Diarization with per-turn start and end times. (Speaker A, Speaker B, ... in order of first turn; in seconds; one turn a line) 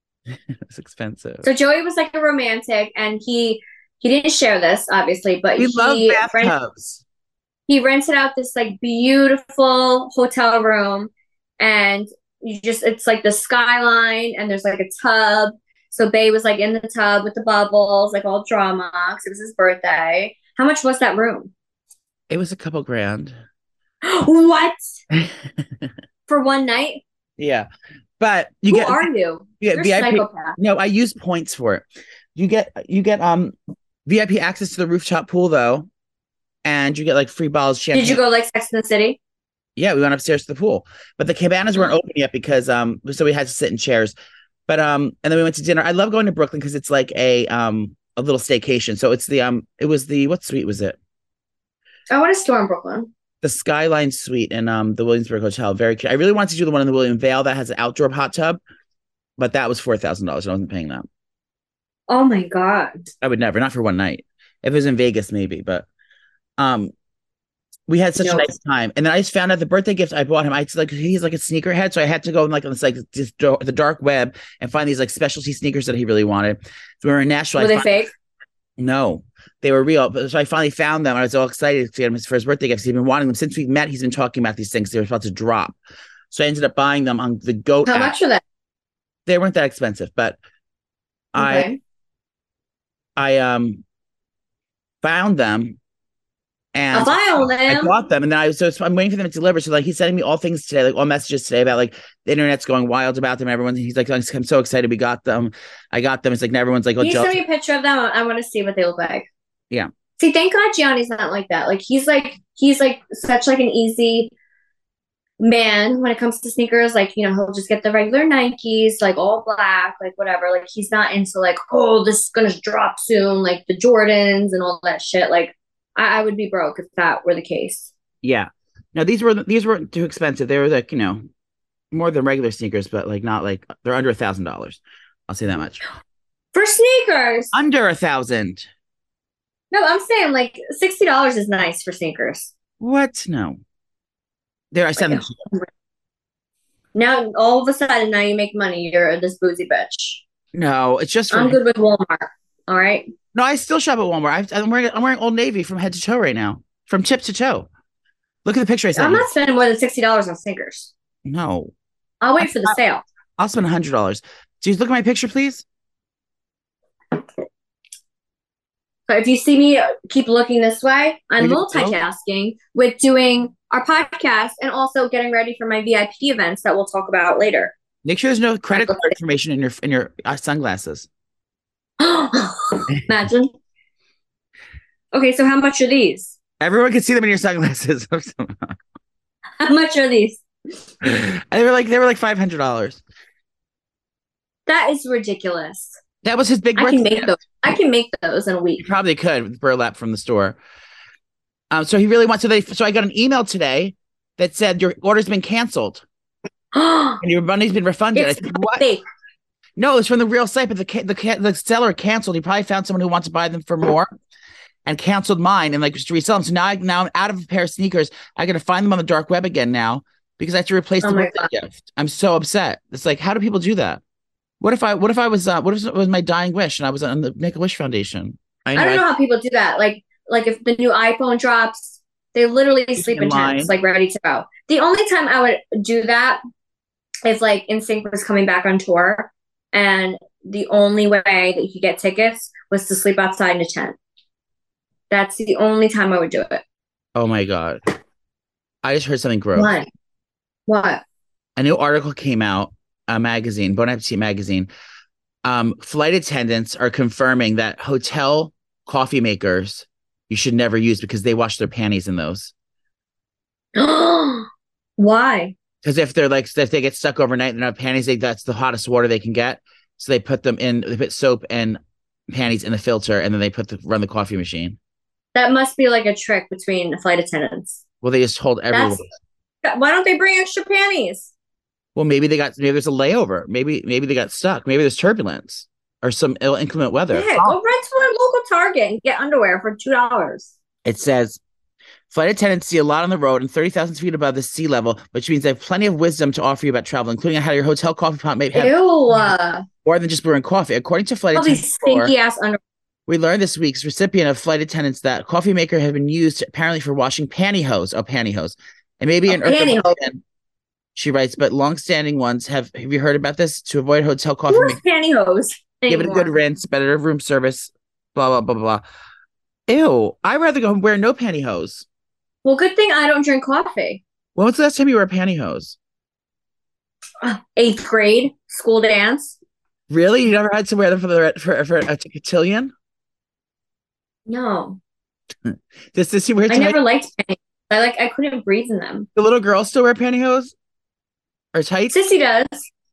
Speaker A: 0.7-1.4
Speaker B: 1.4-6.5
Speaker A: 5.6-7.0
Speaker B: 7.7-21.5
Speaker A: 22.3-23.3
Speaker B: 24.0-24.8
Speaker B: 26.3-27.0
Speaker A: 27.4-27.7
Speaker A: 28.2-29.1
Speaker B: 28.7-30.6
Speaker A: 29.6-33.5
Speaker A: 34.0-35.9
Speaker A: 36.6-38.2
Speaker B: 37.9-39.2
Speaker A: 39.8-44.1
Speaker A: 44.7-51.0
Speaker B: 52.1-53.1
Speaker A: 53.4-58.6
Speaker A: 59.4-61.1
Speaker B: 62.1-63.0
Speaker A: 63.2-65.8
Speaker A: 66.6-66.9
Speaker A: 67.9-77.9
Speaker B: 68.2-68.5
Speaker B: 77.6-78.1
Speaker A: 78.8-85.8
Speaker A: 86.3-88.1
Speaker B: 87.8-88.4
Speaker A: 89.2-90.4
Speaker A: 91.3-91.7
Speaker B: 91.3-91.8
Speaker A: 93.2-93.8
Speaker A: 95.0-95.8
Speaker A: 96.7-107.4
Speaker B: 96.9-97.9
Speaker B: 107.0-109.3
Speaker B: 110.2-114.3
Speaker B: 115.4-127.9
Speaker A: 128.2-131.2
Speaker A: 131.9-135.8
Speaker B: 136.5-137.5
Speaker A: 137.5-138.7
Speaker B: 139.7-142.5
Speaker A: 142.8-143.6
Speaker A: 144.7-145.4
Speaker B: 145.0-145.7
Speaker B: 146.9-150.2
Speaker A: 150.5-151.6
Speaker B: 151.3-153.1
Speaker A: 153.3-157.7
Speaker A: 158.4-159.2
Speaker B: 158.9-160.9
Speaker A: 161.2-161.7
Speaker B: 162.2-163.0
Speaker A: 162.4-162.8
Speaker A: 163.4-165.6
Speaker B: 169.1-177.7
Speaker A: 171.4-172.0
Speaker A: 178.0-181.1
Speaker B: 178.7-179.1
Speaker B: 182.0-183.5
Speaker B: 185.1-186.4
Speaker A: 186.6-188.8
Speaker B: 189.6-190.4
Speaker A: 191.0-193.0
Speaker B: 194.7-196.0
Speaker A: 196.2-197.3
Speaker B: 196.8-198.8
Speaker A: 198.8-200.6
Speaker A: 201.7-206.0
Speaker B: 206.7-207.2
Speaker A: 207.2-208.8
Speaker B: 208.1-209.0
Speaker A: 209.8-214.1
Speaker A: 214.8-224.0
Speaker B: 221.0-221.5
Speaker A: 224.6-229.1
Speaker B: 228.7-236.4
Speaker A: 232.9-233.7
Speaker B: 237.2-243.9
Speaker B: 245.1-246.6
Speaker A: 247.1-247.8
Speaker A: 248.8-249.7
Speaker B: 249.5-249.9
Speaker B: 250.7-251.0
Speaker A: 251.6-254.7
Speaker A: 255.4-262.5
Speaker B: 263.8-265.5
Speaker A: 265.8-271.8
Speaker A: 272.3-274.8
Speaker B: 275.3-277.8
Speaker A: 278.0-279.1
Speaker B: 278.7-279.0
Speaker B: 279.6-281.3
Speaker A: 281.9-287.6
Speaker B: 287.1-290.5
Speaker A: 290.8-291.4
Speaker A: 292.1-299.3
Speaker B: 298.5-299.6
Speaker A: 299.8-302.1
Speaker B: 301.3-302.6
Speaker A: 303.1-310.2
Speaker B: 309.3-310.0
Speaker A: 310.9-314.8
Speaker B: 314.5-316.3
Speaker A: 315.9-318.8
Speaker A: 319.7-321.8
Speaker B: 322.4-324.0
Speaker A: 324.4-325.8
Speaker B: 327.2-329.4
Speaker A: 329.9-332.7
Speaker B: 334.3-334.8
Speaker A: 335.4-336.8
Speaker B: 336.5-339.1
Speaker A: 339.1-340.5
Speaker A: 341.5-341.9
Speaker B: 341.9-342.7